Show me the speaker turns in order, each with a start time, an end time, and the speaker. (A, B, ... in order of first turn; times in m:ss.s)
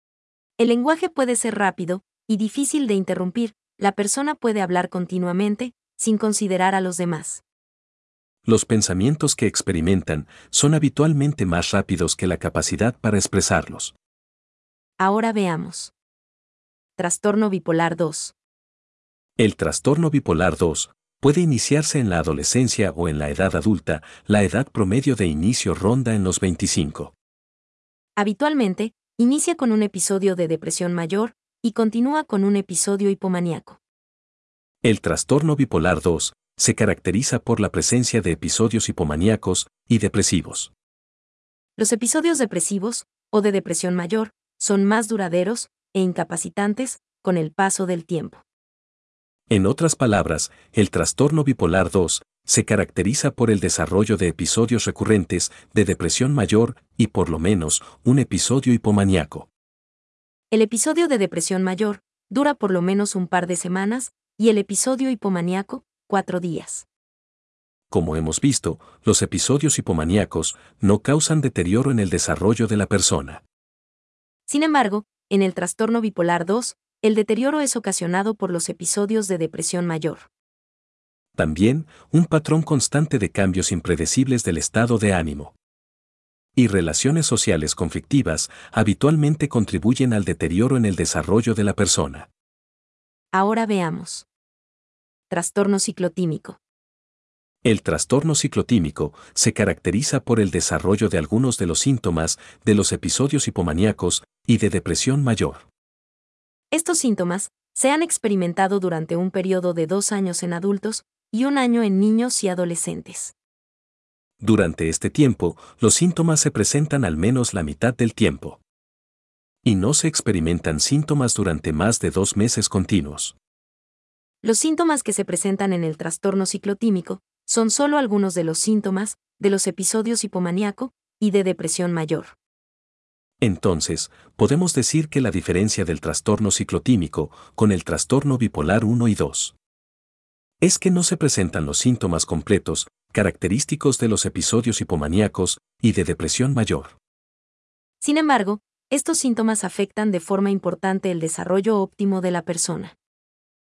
0:00.6-0:07.4 A
0:08.4-0:13.9 B
0:15.0-0:15.9 A
0:17.0-0:18.3 A
0:19.4-0:27.1 B
0:28.2-0:33.8 A
0:34.8-0:40.7 B
0:41.8-0:48.4 A
0:49.5-0:59.5 B
1:00.5-1:06.8 A
1:07.9-1:13.4 B
1:14.5-1:20.3 A
1:21.3-1:25.5 B
1:26.6-1:32.3 B
1:33.3-1:34.2 A
1:35.3-1:36.6 A
1:37.6-1:45.7 B
1:46.7-1:53.3 A
1:54.4-1:58.6 B
1:59.6-2:03.4 B
2:04.4-2:12.3 A
2:13.4-2:19.5 B
2:20.6-2:27.0 B
2:28.0-2:32.9 A